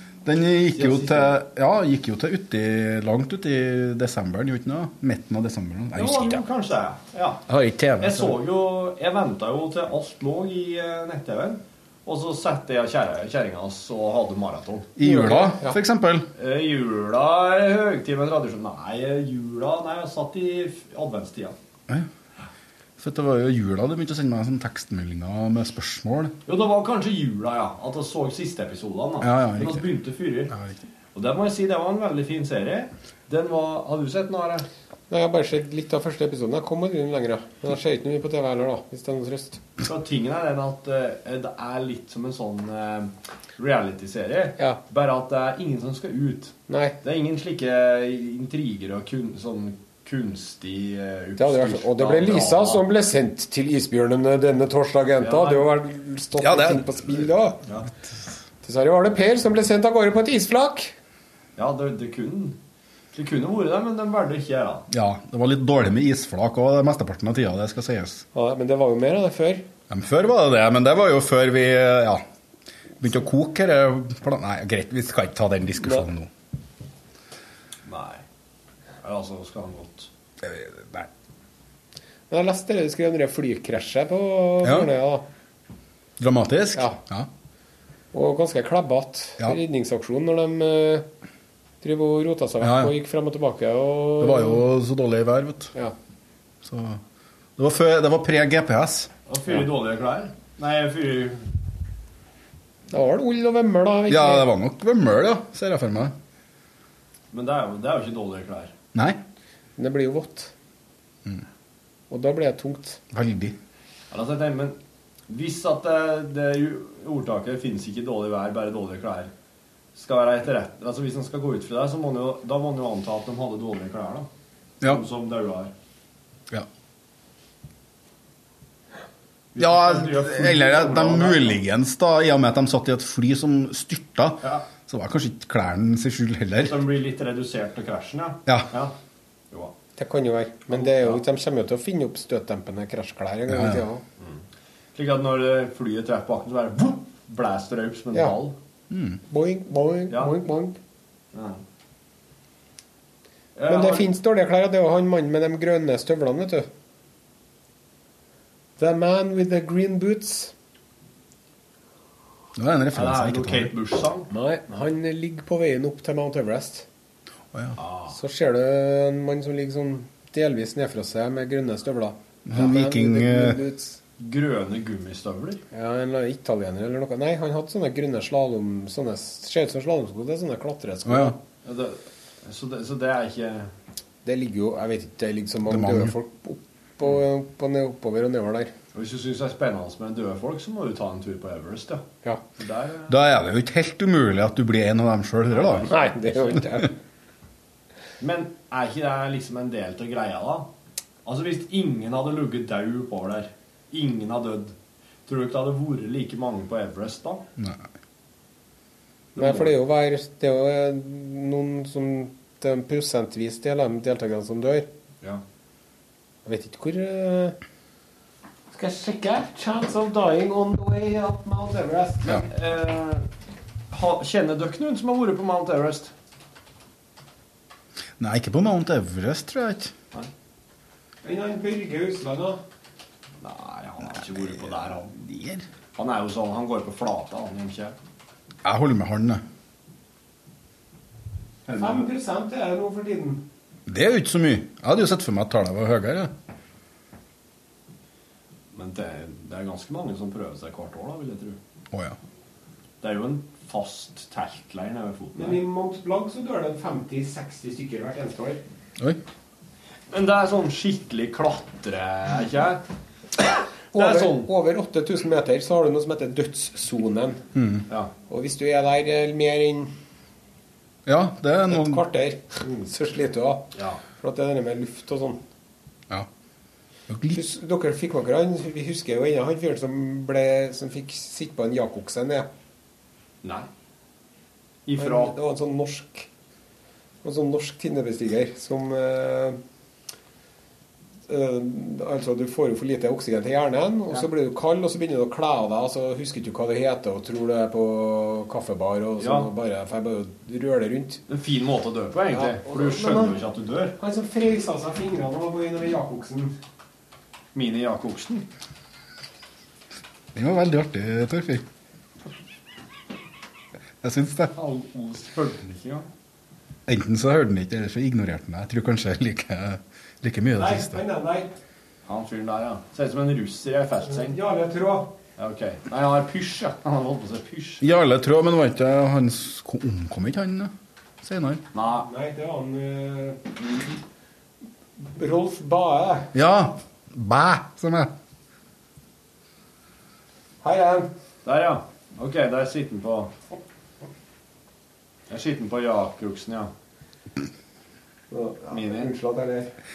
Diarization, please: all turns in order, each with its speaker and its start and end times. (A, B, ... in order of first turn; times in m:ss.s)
0:00.2-0:06.4 A
0:00.7-0:01.4 B
0:05.9-0:07.5 B
0:07.5-0:08.3 A
0:08.0-0:14.9 B
0:15.0-0:16.3 A
0:15.0-0:15.8 C
0:16.4-0:21.6 B
0:23.0-0:26.4 A
0:26.4-0:30.5 B
0:29.2-0:29.9 A
0:31.1-0:34.7 B
0:35.1-0:39.6 C
0:39.8-0:52.9 B
0:46.7-0:47.0 C
0:51.4-0:57.6 C
0:55.2-0:55.7 B
0:56.4-0:57.0 A
0:58.6-1:00.9 C
1:01.6-1:02.6 B
1:03.1-1:04.9 B
1:04.9-1:08.2 A
1:08.3-1:09.6 C
1:09.9-1:12.2 A
1:13.0-1:16.3 A
1:17.8-1:18.2 B
1:19.0-1:20.1 B
1:20.4-1:21.1 A
1:22.3-1:25.2 C
1:24.6-1:24.9 A
1:26.2-1:27.3 A
1:26.7-1:27.0 C
1:28.1-1:31.1 C
1:31.8-1:34.6 C
1:32.6-1:32.9 A
1:34.2-1:35.7 A
1:36.6-1:37.0 A
1:37.6-1:39.1 A
1:39.3-1:41.5 B
1:42.9-1:44.5 C
1:44.1-1:46.1 A
1:47.3-1:48.7 B
1:48.9-1:49.2 A
1:49.8-1:50.5 C
1:52.1-1:53.0 C
1:53.1-1:53.6 A
1:54.1-1:54.8 B
1:55.3-1:59.3 B
1:59.9-2:04.3 B
2:04.8-2:05.7 B
2:09.5-2:11.6 B
2:09.6-2:16.8 A
2:14.4-2:14.7 B
2:16.6-2:18.9 B
2:20.0-2:24.0 C
2:20.7-2:21.2 B
2:23.5-2:23.8 A
2:24.9-2:28.6 B
2:28.9-2:29.2 A
2:29.3-2:30.8 C
2:30.1-2:30.4 B
2:31.3-2:31.6 B
2:33.5-2:34.1 B
2:33.7-2:36.7 C
2:38.8-2:40.5 C
2:42.6-2:43.7 A
2:42.9-2:44.3 B
2:44.3-2:46.8 C
2:47.5-2:47.8 A
2:47.8-2:48.1 B
2:48.1-2:54.0 C
2:52.4-2:53.6 A
2:54.2-2:55.6 B
2:55.7-3:01.4 C
3:01.0-3:01.4 A
3:01.6-3:03.7 B
3:04.2-3:08.7 C
3:05.7-3:06.1 A
3:08.9-3:12.0 B
3:12.6-3:13.1 B
3:13.1-3:15.9 A
3:15.5-3:16.6 B
3:15.8-3:16.9 C
3:18.2-3:20.7 B
3:21.2-3:24.7 B
3:25.2-3:27.4 B
3:27.6-3:27.8 A
3:29.3-3:29.7 B
3:29.4-3:34.9 C
3:36.4-3:37.6 C
3:38.7-3:42.4 C
3:42.3-3:43.3 B
3:43.9-3:46.1 B
3:48.2-3:49.9 A
3:51.2-3:52.6 C
3:53.4-3:55.1 B
3:55.2-3:55.6 A
3:56.0-3:57.9 B
3:58.6-3:59.4 A
4:01.7-4:02.1 B
4:01.7-4:03.5 C
4:03.9-4:06.3 A
4:08.7-4:11.6 B
4:11.9-4:12.2 A
4:13.0-4:15.6 B
4:15.4-4:18.6 C
4:20.1-4:22.8 B
4:23.9-4:24.5 B
4:23.9-4:27.4 C
4:27.5-4:27.8 A
4:28.3-4:29.9 C
4:31.0-4:32.0 A
4:31.7-4:35.4 C
4:33.7-4:34.0 B
4:37.1-4:37.4 A
4:37.3-4:42.5 C
4:43.4-4:43.7 B
4:44.8-4:45.3 B
4:45.0-4:46.3 C
4:47.2-4:49.6 C
4:51.3-5:01.2 C
4:59.2-4:59.5 B
5:01.3-5:03.9 B
5:02.3-5:03.4 C
5:04.0-5:06.6 C
5:07.5-5:08.5 B
5:10.3-5:11.6 A
5:14.0-5:14.5 A
5:14.5-5:16.1 B
5:16.9-5:21.0 A
5:20.6-5:21.5 C
5:22.1-5:24.4 B
5:24.1-5:25.1 C
5:25.4-5:27.8 B
5:27.8-5:31.6 A
5:31.7-5:32.1 B
5:31.9-5:33.8 C
5:35.0-5:36.3 C
5:36.3-5:38.1 A
5:40.6-5:41.1 C
5:41.4-5:43.3 B
5:45.3-5:46.7 B
5:48.3-5:49.7 C
5:48.7-5:49.1 B